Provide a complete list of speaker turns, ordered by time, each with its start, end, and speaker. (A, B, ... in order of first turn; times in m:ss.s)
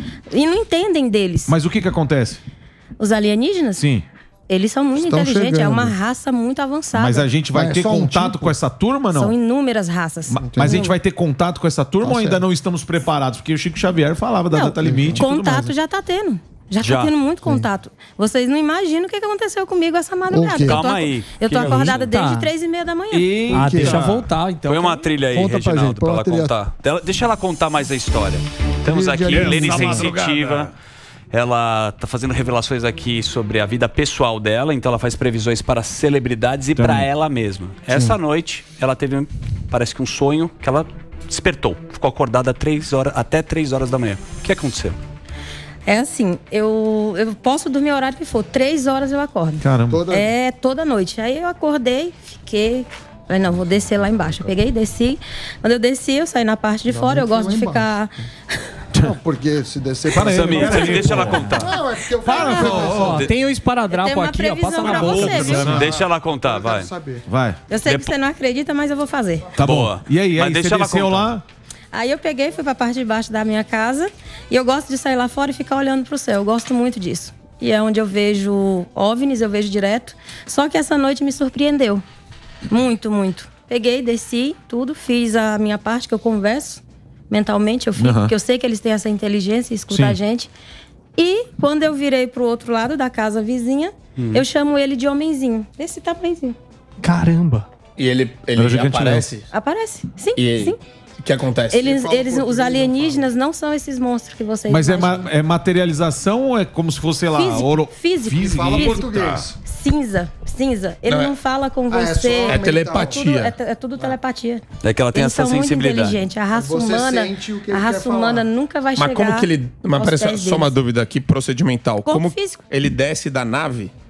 0:00.3-0:01.5 A
0:01.5-0:02.4 B
0:03.0-0:03.9 A
0:03.8-0:04.0 B
0:04.5-0:07.3 A
0:05.0-0:05.9 C
0:06.9-0:09.3 B
0:07.5-0:08.5 C
0:09.1-0:10.9 A
0:10.3-0:15.7 B
0:10.4-0:10.8 C
0:12.0-0:12.4 C
0:14.5-0:23.4 A
0:14.8-0:15.3 C
0:16.8-0:17.1 D
0:20.3-0:20.8 C
0:20.5-0:22.1 D
0:21.6-0:22.5 E
0:23.1-0:24.3 B
0:23.5-0:25.0 E
0:23.5-0:24.1 C
0:24.6-0:30.7 D
0:25.3-0:26.6 C
0:28.8-0:30.1 C
0:29.3-0:30.7 B
0:31.3-0:45.0 D
0:36.8-0:37.0 B
0:45.8-0:58.6 A
0:49.6-0:50.0 B
0:49.9-0:50.3 C
0:56.9-0:58.2 C
0:58.9-1:03.3 C
1:00.1-1:01.5 B
1:00.2-1:01.8 D
1:02.2-1:03.3 B
1:02.3-1:02.8 A
1:02.3-1:05.8 E
1:02.9-1:03.4 D
1:03.9-1:05.8 A
1:04.8-1:05.9 B
1:05.0-1:06.9 D
1:05.7-1:07.2 C
1:07.3-1:07.6 B
1:07.7-1:09.5 A
1:07.8-1:08.1 D
1:09.5-1:11.4 D
1:09.6-1:11.4 B
1:11.9-1:22.0 A
1:22.7-1:30.5 A
1:28.0-1:28.3 B
1:29.9-1:30.2 B
1:31.2-1:36.6 A
1:34.2-1:34.4 D
1:37.0-1:37.6 E
1:38.0-1:39.5 F
1:38.6-1:39.3 B
1:39.5-1:40.8 A
1:40.4-1:41.9 F
1:41.7-1:45.3 A
1:41.8-1:43.3 C
1:44.7-1:49.5 B
1:47.3-2:00.8 A
1:48.3-1:49.5 C
1:51.0-1:51.4 F
1:51.9-1:53.2 C
1:52.4-1:53.6 F
1:54.8-1:56.2 D
1:56.5-1:58.5 C
1:59.0-2:03.9 F
2:02.0-2:02.7 A